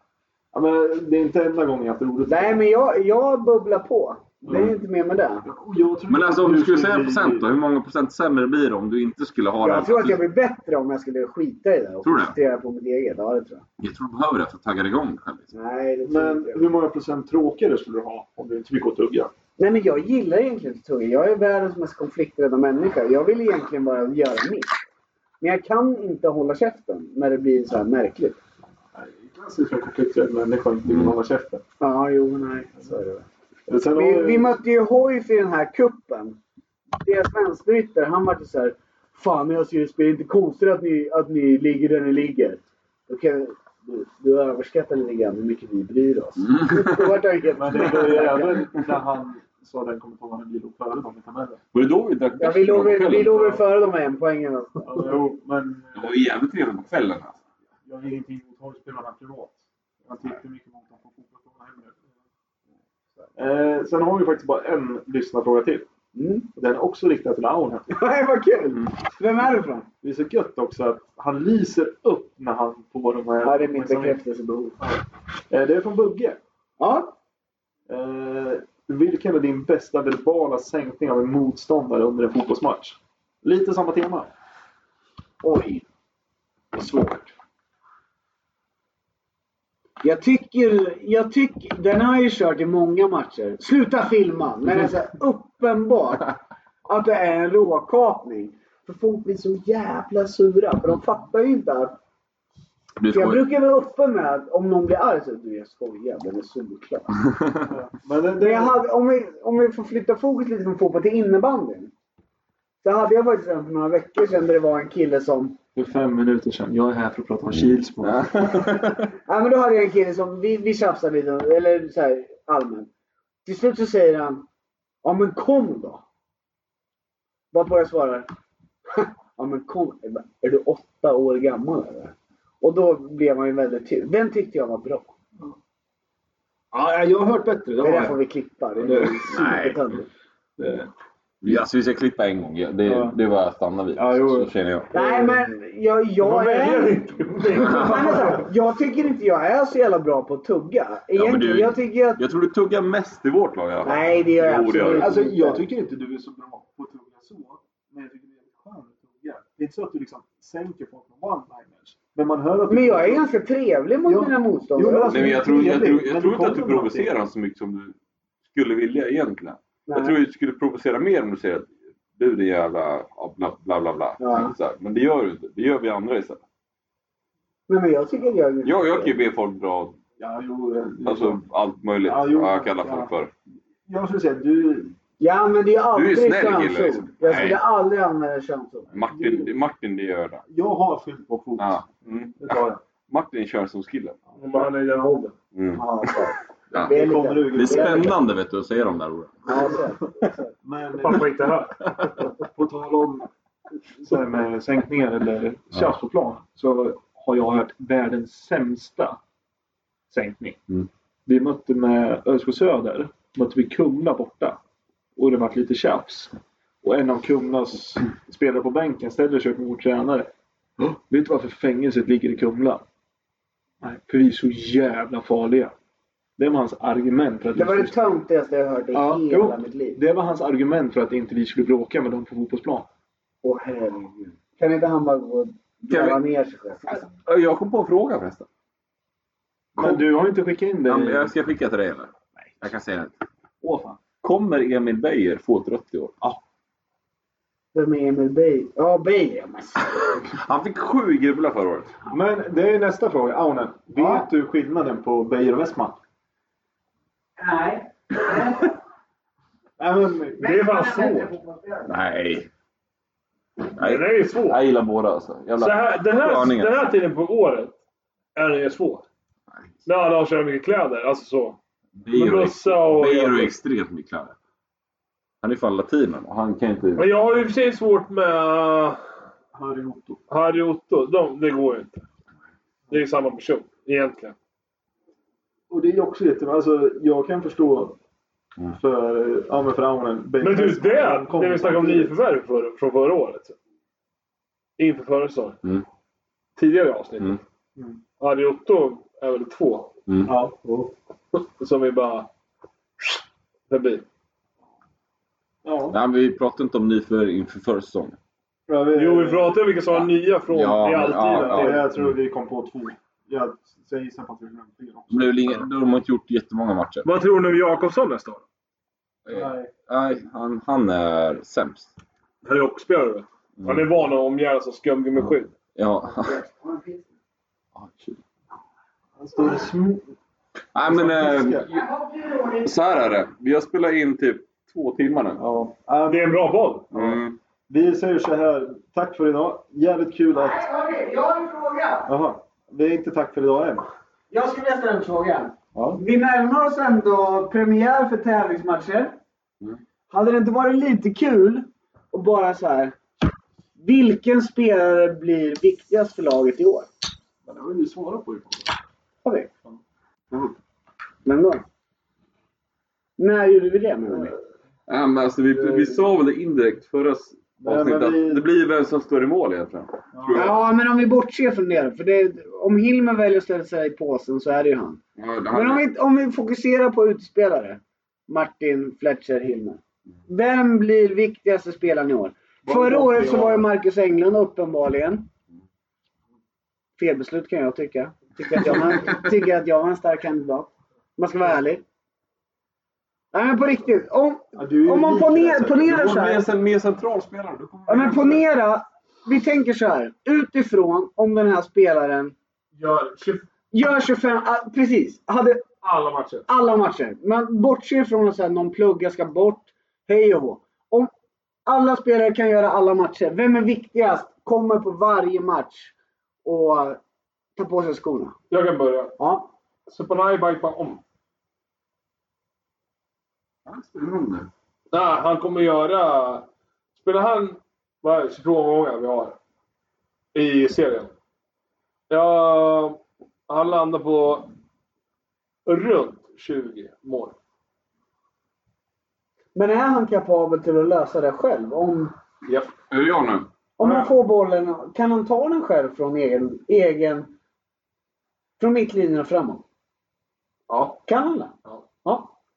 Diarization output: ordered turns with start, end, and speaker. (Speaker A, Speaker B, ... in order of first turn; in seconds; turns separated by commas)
Speaker A: 0.5-2.6, Speaker B: 2.3-5.5, Speaker A: 4.5-4.7, Speaker A: 5.4-7.5, Speaker C: 6.1-10.2, Speaker B: 9.6-13.6, Speaker C: 12.0-12.4, Speaker C: 13.8-15.5, Speaker B: 15.5-16.7, Speaker A: 16.1-19.3, Speaker B: 19.6-24.7, Speaker B: 25.4-28.4, Speaker A: 28.9-31.6, Speaker C: 30.9-31.1, Speaker B: 31.8-33.2, Speaker A: 33.7-34.6, Speaker B: 33.9-36.4, Speaker B: 37.0-48.7, Speaker A: 47.6-51.6, Speaker C: 51.7-53.6, Speaker B: 52.4-55.1, Speaker A: 54.8-56.2, Speaker C: 56.0-57.4, Speaker A: 57.9-62.1, Speaker A: 63.4-65.9, Speaker B: 66.1-66.5, Speaker A: 66.5-67.9, Speaker B: 67.9-69.9, Speaker A: 70.0-74.2, Speaker B: 73.4-74.8, Speaker A: 75.5-76.4, Speaker B: 76.8-77.1, Speaker A: 77.9-84.3, Speaker B: 85.4-85.8, Speaker A: 86.7-87.3, Speaker B: 90.0-96.3, Speaker B: 96.9-102.0, Speaker C: 103.0-103.4, Speaker B: 103.1-107.3, Speaker A: 107.6-108.8, Speaker B: 108.4-111.9, Speaker B: 112.8-115.6, Speaker A: 115.8-118.7, Speaker C: 118.0-119.1, Speaker B: 119.3-122.9, Speaker B: 123.5-124.5, Speaker B: 125.0-126.0, Speaker B: 127.5-128.3, Speaker B: 128.9-135.1, Speaker A: 136.7-138.2, Speaker B: 137.8-140.1, Speaker A: 138.8-139.4, Speaker C: 139.3-139.8, Speaker A: 140.6-140.9, Speaker C: 141.4-144.9, Speaker A: 142.8-143.2, Speaker A: 143.9-145.4, Speaker B: 144.9-152.2, Speaker D: 146.2-148.4, Speaker A: 147.5-148.4, Speaker C: 151.1-155.2, Speaker B: 153.8-155.7, Speaker A: 154.9-163.3, Speaker B: 162.7-165.7, Speaker A: 164.1-167.1, Speaker C: 165.1-167.9, Speaker C: 168.5-176.4, Speaker B: 169.9-170.2, Speaker B: 174.2-174.5, Speaker B: 177.7-179.1, Speaker C: 178.7-180.0, Speaker A: 180.2-181.4, Speaker C: 181.0-183.3, Speaker A: 182.0-183.1, Speaker A: 183.9-184.9, Speaker B: 185.2-188.9, Speaker C: 185.9-187.6, Speaker C: 188.9-190.4, Speaker A: 188.9-189.6, Speaker A: 190.5-191.9, Speaker C: 191.6-194.2, Speaker A: 192.4-192.8, Speaker A: 194.3-194.7, Speaker D: 194.4-195.3, Speaker C: 195.5-195.8, Speaker B: 195.8-198.2, Speaker C: 196.7-199.4, Speaker A: 196.8-198.3, Speaker B: 199.4-200.5, Speaker A: 200.6-201.3, Speaker D: 201.0-202.1, Speaker A: 202.2-203.3, Speaker A: 204.0-209.2, Speaker A: 210.1-210.6, Speaker A: 211.3-214.6, Speaker A: 215.2-222.8, Speaker A: 223.8-225.7, Speaker A: 226.4-228.0, Speaker B: 227.5-230.0, Speaker A: 228.9-232.9, Speaker B: 233.4-237.1, Speaker C: 235.9-236.2, Speaker C: 236.9-238.5, Speaker A: 239.8-241.3, Speaker C: 239.8-240.1, Speaker C: 240.9-243.2, Speaker A: 243.6-244.0, Speaker C: 244.2-246.2, Speaker B: 247.7-250.2, Speaker C: 250.3-252.0, Speaker A: 252.1-256.0, Speaker B: 253.9-254.3, Speaker B: 257.4-258.8, Speaker A: 259.8-260.6, Speaker B: 260.4-261.9, Speaker D: 260.4-261.3, Speaker C: 261.9-262.5, Speaker C: 263.8-266.8, Speaker D: 263.8-264.6, Speaker D: 265.6-267.8, Speaker D: 268.4-269.1, Speaker D: 269.9-271.6, Speaker C: 272.0-274.3, Speaker D: 272.1-273.5, Speaker C: 275.4-277.1, Speaker D: 277.0-279.0, Speaker A: 279.5-280.2, Speaker D: 280.3-282.0, Speaker D: 282.9-284.4, Speaker A: 285.7-288.0, Speaker A: 288.7-292.2, Speaker D: 290.4-293.6, Speaker D: 294.8-295.6, Speaker D: 296.6-297.4, Speaker D: 298.2-299.9, Speaker C: 300.1-300.3, Speaker A: 300.2-300.9, Speaker D: 301.3-302.3, Speaker D: 303.7-304.1, Speaker A: 305.6-306.0, Speaker C: 305.9-308.2, Speaker A: 308.7-309.6, Speaker D: 308.9-311.9, Speaker C: 309.9-312.1, Speaker A: 311.3-315.6, Speaker C: 315.1-317.1, Speaker D: 317.0-318.4, Speaker C: 319.3-321.9, Speaker A: 319.3-319.7, Speaker D: 322.4-325.6, Speaker C: 323.6-323.9, Speaker C: 325.8-326.4, Speaker B: 326.1-327.1, Speaker C: 327.8-328.2, Speaker A: 329.2-330.1, Speaker C: 330.7-331.7, Speaker A: 330.8-331.9, Speaker B: 331.7-332.7, Speaker C: 332.6-335.4, Speaker A: 335.4-337.1, Speaker D: 336.1-336.9, Speaker C: 336.9-337.4, Speaker A: 337.7-340.6, Speaker B: 340.4-342.1, Speaker A: 342.1-343.9, Speaker B: 344.3-349.2, Speaker A: 345.8-346.0, Speaker B: 350.1-352.9, Speaker B: 353.8-356.9, Speaker A: 357.4-358.7, Speaker B: 359.2-359.5, Speaker B: 361.2-361.6, Speaker B: 363.2-364.3, Speaker C: 364.9-370.6, Speaker A: 365.6-365.9, Speaker A: 367.6-368.4, Speaker A: 370.1-370.6, Speaker B: 370.3-375.0, Speaker C: 375.2-375.8, Speaker B: 375.5-385.3, Speaker A: 382.7-383.4, Speaker D: 382.7-383.6, Speaker B: 387.0-391.8, Speaker B: 393.3-396.4, Speaker A: 394.6-396.1, Speaker C: 395.9-398.4, Speaker B: 397.9-402.3, Speaker D: 402.8-403.5, Speaker B: 403.7-405.6, Speaker D: 405.8-406.5, Speaker B: 406.5-411.1, Speaker B: 411.7-415.9, Speaker B: 416.4-417.0, Speaker B: 417.6-418.4, Speaker D: 418.5-419.1, Speaker B: 419.2-419.5, Speaker D: 419.9-421.0, Speaker C: 423.7-424.5, Speaker D: 424.9-429.4, Speaker D: 430.3-431.1, Speaker D: 432.1-434.5, Speaker D: 435.7-437.4, Speaker B: 439.6-442.1, Speaker C: 442.9-443.5, Speaker B: 443.8-447.3, Speaker D: 443.8-444.1, Speaker B: 448.6-449.6, Speaker D: 450.7-451.0, Speaker B: 451.1-451.5, Speaker B: 452.0-452.3